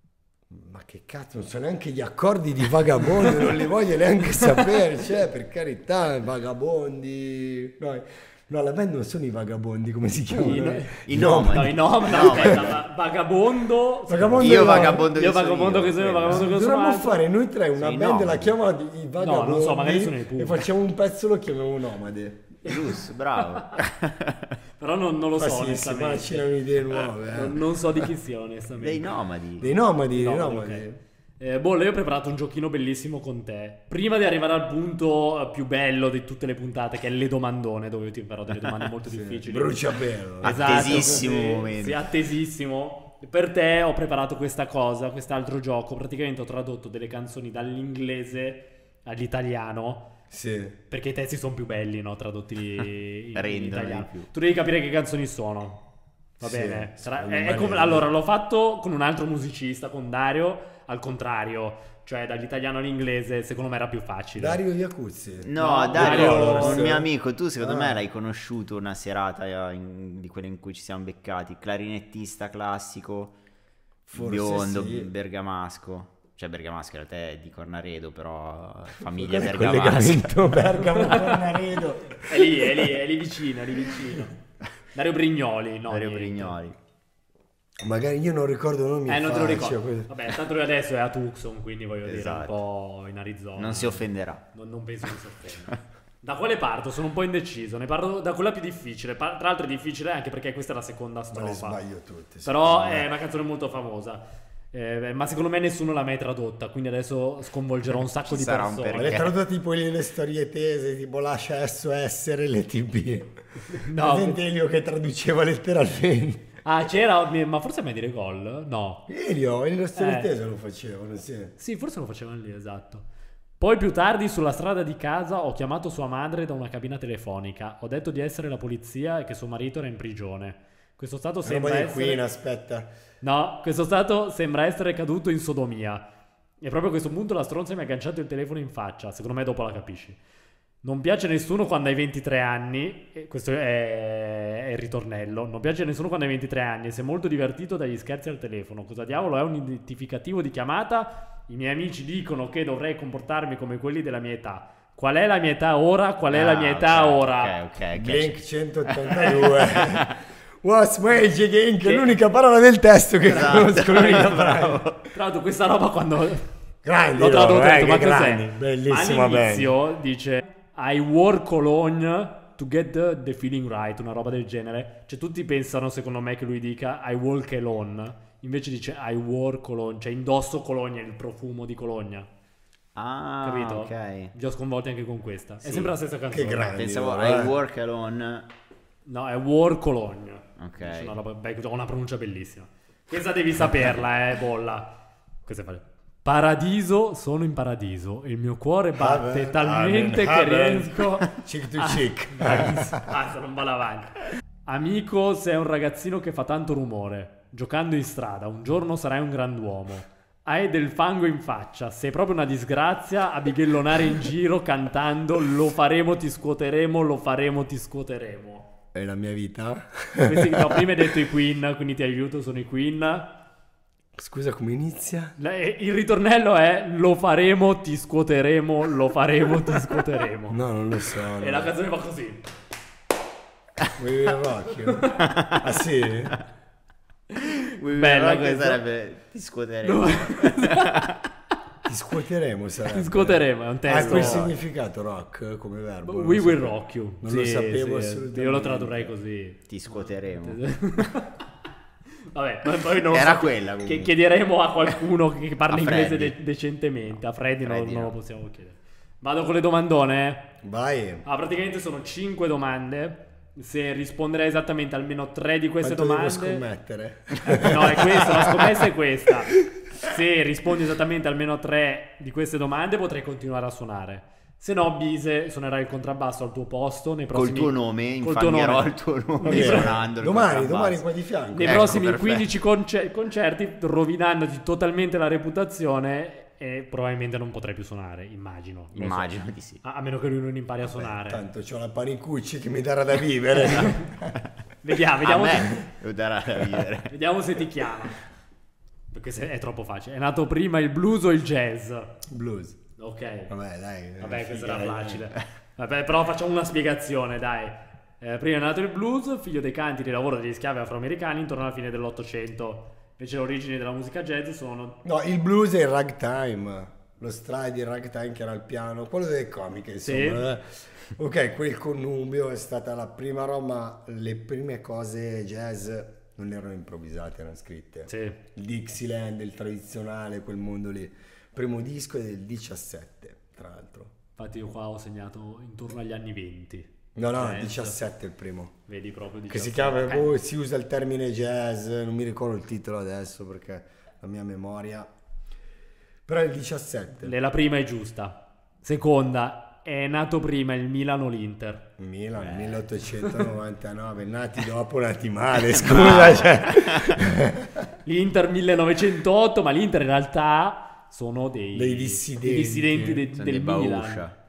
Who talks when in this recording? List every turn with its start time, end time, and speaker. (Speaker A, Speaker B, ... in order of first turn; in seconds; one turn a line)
Speaker A: 0.5-12.8
Speaker B: 10.3-17.2
Speaker C: 11.1-12.8
Speaker A: 14.1-15.1
Speaker C: 14.4-16.4
Speaker A: 16.3-22.5
Speaker C: 17.8-18.6
Speaker B: 19.2-20.7
Speaker C: 22.6-24.6
Speaker B: 22.6-23.7
Speaker B: 24.8-26.5
Speaker A: 25.4-27.6
Speaker B: 27.3-29.1
Speaker C: 28.8-29.7
Speaker A: 29.6-31.0
Speaker B: 30.1-30.9
Speaker B: 31.4-39.8
Speaker A: 39.1-41.3
Speaker B: 40.4-50.1
Speaker C: 40.4-42.0
Speaker A: 50.3-50.8
Speaker B: 50.9-55.8
Speaker C: 52.8-54.3
Speaker B: 56.4-64.6
Speaker A: 56.4-58.1
Speaker A: 64.4-68.0
Speaker C: 65.4-73.3
Speaker B: 65.5-66.9
Speaker A: 74.1-75.1
Speaker C: 74.1-80.6
Speaker A: 79.1-82.9
Speaker B: 80.8-81.5
Speaker B: 82.2-84.4
Speaker B: 84.9-86.6
Speaker C: 85.9-86.8
Speaker A: 87.8-90.1
Speaker B: 89.1-101.8
Speaker C: 92.0-92.6
Speaker C: 93.5-94.4
Speaker A: 101.3-103.1
Speaker B: 102.4-109.3
Speaker C: 108.2-109.3
Speaker A: 108.9-116.5
Speaker B: 113.7-114.4
Speaker B: 116.6-119.1
Speaker A: 119.1-121.5
Speaker B: 120.0-120.3
Speaker B: 121.6-123.0
Speaker B: 123.6-132.2
Speaker A: 131.4-132.9
Speaker B: 133.2-136.0
Speaker B: 136.6-140.2
Speaker B: 140.8-157.6
Speaker C: 156.3-160.1
Speaker A: 157.9-164.8
Speaker B: 161.8-162.2
Speaker C: 163.2-165.0
Speaker B: 163.8-164.4
Speaker B: 165.1-166.4
Speaker A: 166.8-169.7
Speaker B: 167.2-182.3
Speaker C: 182.9-184.3
Speaker B: 183.4-186.8
Speaker C: 185.6-185.9
Speaker A: 186.3-187.6
Speaker C: 186.7-188.5
Speaker B: 189.0-218.7
Speaker C: 190.6-191.2
Speaker A: 198.9-203.1
Speaker A: 218.9-221.0
Speaker B: 220.2-223.3
Speaker A: 224.2-225.3
Speaker B: 225.4-230.6
Speaker A: 230.5-231.7
Speaker B: 231.4-232.4
Speaker A: 233.9-236.4
Speaker C: 235.2-235.6
Speaker B: 237.4-238.8
Speaker C: 237.7-241.0
Speaker B: 239.8-241.3
Speaker A: 241.8-249.1
Speaker B: 242.9-244.5
Speaker C: 244.0-244.5
Speaker B: 246.0-251.4
Speaker C: 249.7-250.6
Speaker B: 252.3-260.5
Speaker C: 253.0-254.1
Speaker C: 255.7-256.3
Speaker C: 257.6-258.1
Speaker A: 260.6-261.2
Speaker B: 261.2-266.6
Speaker A: 265.8-268.7
Speaker B: 267.5-280.0
Speaker C: 277.3-281.0
Speaker A: 279.4-282.1
Speaker B: 281.6-291.4
Speaker C: 281.6-282.5
Speaker C: 288.9-289.8
Speaker A: 290.8-294.4
Speaker B: 293.7-294.0
Speaker B: 294.8-295.9
Speaker C: 295.2-297.1
Speaker B: 297.1-298.2
Speaker B: 299.1-302.1
Speaker A: 302.3-302.8
Speaker B: 303.0-303.5
Speaker A: 303.5-305.3
Speaker B: 304.2-315.0
Speaker A: 315.0-334.1
Speaker B: 320.0-320.4
Speaker B: 328.1-328.4
Speaker B: 334.4-338.0
Speaker A: 337.1-338.7
Speaker B: 338.9-340.4
Speaker A: 339.5-345.1
Speaker A: 346.3-347.3
Speaker B: 347.2-351.9
Speaker A: 352.0-357.9
Speaker C: 352.4-352.8
Speaker C: 355.9-357.2
Speaker B: 358.0-364.3
Speaker A: 361.7-363.2
Speaker C: 363.3-364.3